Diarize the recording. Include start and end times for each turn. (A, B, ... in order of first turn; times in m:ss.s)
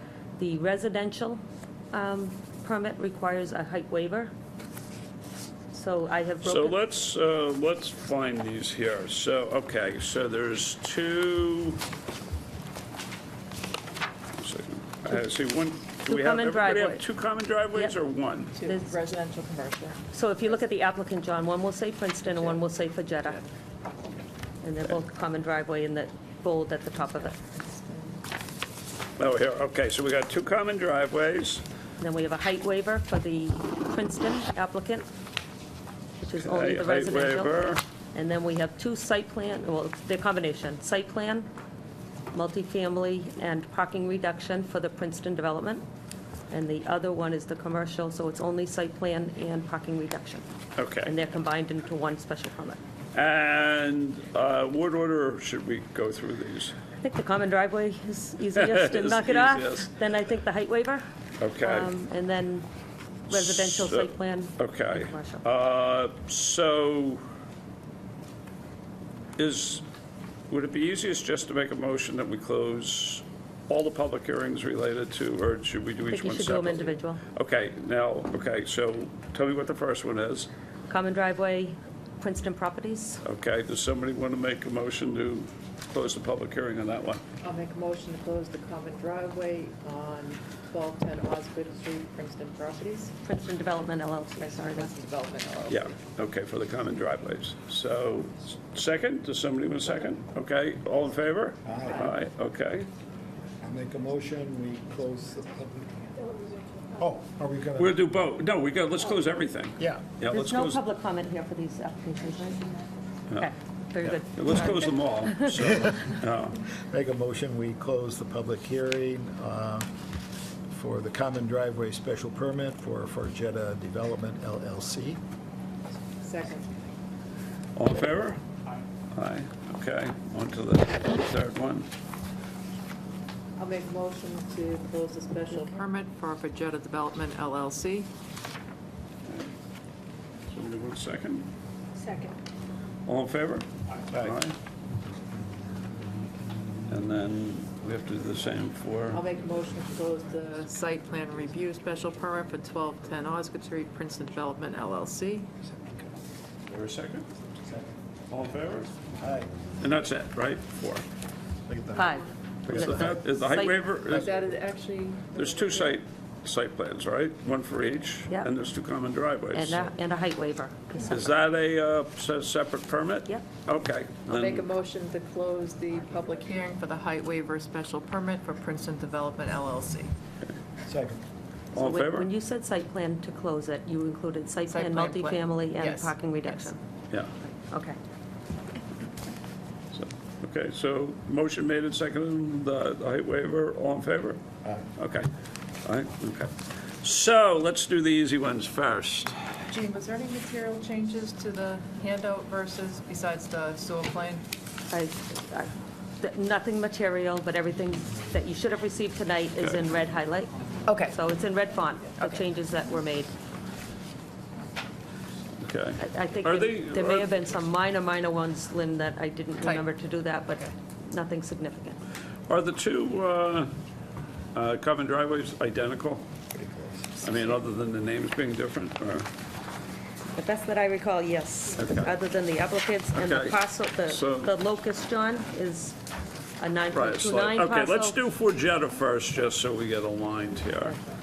0:00.4-0:01.4 A
0:01.9-0:04.3 A
0:05.7-0:06.8 A
0:06.4-0:11.8 B
0:14.4-0:18.5 B
0:16.1-0:17.0 A
0:18.5-0:20.0 C
0:18.6-0:18.9 A
0:20.1-0:23.4 A
0:22.3-0:22.6 C
0:24.6-0:27.4 A
0:27.3-0:28.2 C
0:29.2-0:31.6 B
0:32.0-0:35.1 A
0:36.2-0:37.6 A
0:36.4-0:37.8 B
0:38.1-0:41.5 A
0:42.3-0:45.8 A
0:46.5-0:50.4 A
0:50.8-0:51.1 B
0:51.0-0:52.8 A
0:53.1-0:56.8 B
0:57.0-1:01.0 A
0:58.5-0:59.9 B
1:01.4-1:01.9 B
1:01.6-1:02.7 A
1:03.3-1:05.4 A
1:03.3-1:07.2 B
1:09.4-1:09.8 B
1:10.5-1:20.5 B
1:16.1-1:17.2 A
1:20.9-1:23.2 A
1:23.2-1:27.2 B
1:27.4-1:33.2 C
1:33.2-1:34.9 A
1:34.4-1:36.0 C
1:35.7-1:42.9 B
1:41.6-1:42.0 D
1:43.6-1:46.3 D
1:47.0-1:48.0 D
1:47.8-1:50.8 B
1:49.8-1:50.1 D
1:50.3-1:52.7 A
1:53.3-1:55.4 A
1:54.0-1:56.6 B
1:55.6-1:56.1 D
1:56.8-1:59.9 D
2:00.7-2:05.2 D
2:06.2-2:06.9 C
2:07.7-2:08.4 B
2:09.1-2:11.9 B
2:13.6-2:18.1 C
2:20.5-2:21.5 B
2:23.0-2:24.6 B
2:26.9-2:29.2 B
2:29.1-2:35.5 C
2:35.6-2:36.1 D
2:36.7-2:37.3 B
2:37.6-2:37.9 D
2:38.3-2:39.0 B
2:39.2-2:39.5 D
2:39.8-2:41.0 B
2:41.7-2:43.2 D
2:41.9-2:43.8 A
2:42.7-2:44.3 B
2:44.0-2:46.0 C
2:44.1-2:44.4 D
2:45.3-2:49.8 B
2:49.5-2:51.3 A
2:51.1-2:54.7 B
2:54.3-3:00.1 C
3:00.8-3:01.2 D
3:01.7-3:02.3 B
3:01.7-3:06.8 A
3:04.7-3:06.7 C
3:07.4-3:08.0 A
3:09.9-3:14.4 B
3:15.0-3:15.3 B
3:15.8-3:19.4 B
3:19.7-3:24.4 C
3:24.9-3:33.3 A
3:30.8-3:31.2 C
3:35.6-3:37.3 B
3:36.0-3:42.0 A
3:39.6-3:39.9 C
3:42.5-3:43.7 B
3:44.5-3:46.2 B
3:46.5-3:47.2 D
3:47.2-3:49.3 B
3:50.4-3:56.0 A
3:51.8-3:52.0 B
3:53.1-3:54.5 B
3:56.6-3:58.2 A
3:56.9-4:01.0 B